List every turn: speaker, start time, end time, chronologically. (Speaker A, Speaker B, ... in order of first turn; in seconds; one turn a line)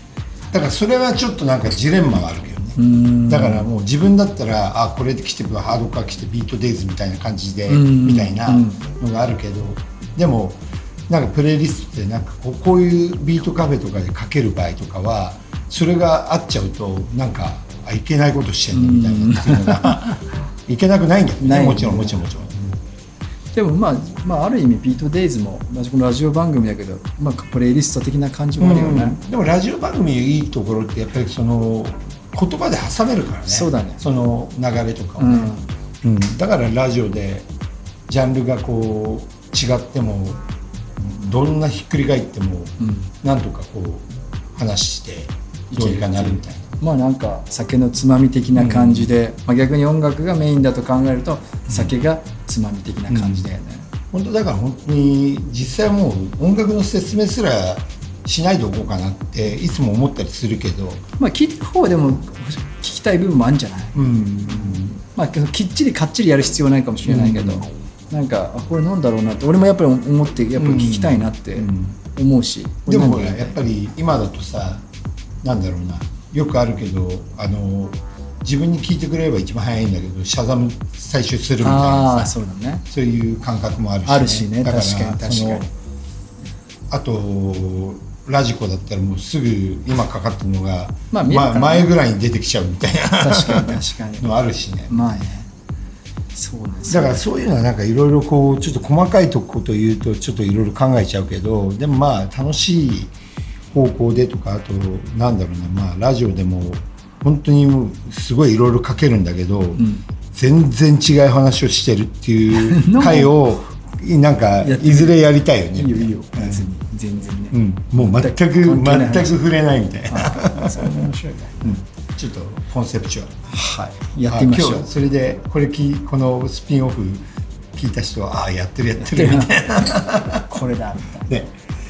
Speaker A: 0.5-22.8
Speaker B: 2.8-3.7
Speaker B: 7.7-8.8
Speaker B: 18.7-20.1
Speaker B: 21.4-22.2
Speaker B: 23.5-29.2
Speaker A: 28.6-37.5
Speaker B: 33.5-34.0
Speaker B: 35.2-35.6
Speaker A: 38.1-40.4
Speaker A: 41.0-46.7
Speaker B: 42.8-43.1
Speaker B: 45.7-53.9
Speaker A: 48.5-49.1
Speaker A: 51.7-51.9
Speaker A: 53.1-53.5
Speaker A: 54.1-61.0
Speaker B: 61.2-63.9
Speaker A: 63.9-65.0
Speaker B: 65.1-73.5
Speaker A: 67.0-67.7
Speaker A: 70.5-72.0
Speaker A: 72.9-74.8
Speaker A: 75.4-82.3
Speaker B: 81.6-82.8
Speaker A: 82.9-85.7
Speaker B: 84.0-85.7
Speaker A: 86.9-95.2
Speaker B: 91.1-91.9
Speaker B: 93.1-94.3
Speaker B: 94.9-95.5
Speaker B: 96.3-97.2
Speaker A: 96.9-103.1
Speaker A: 103.7-116.7
Speaker B: 109.8-110.0
Speaker B: 112.5-113.3
Speaker B: 114.6-119.4
Speaker A: 117.5-121.1
Speaker B: 120.1-121.8
Speaker A: 121.6-123.4
Speaker B: 123.5-124.9
Speaker A: 124.2-130.5
Speaker B: 129.0-129.7
Speaker B: 130.5-131.4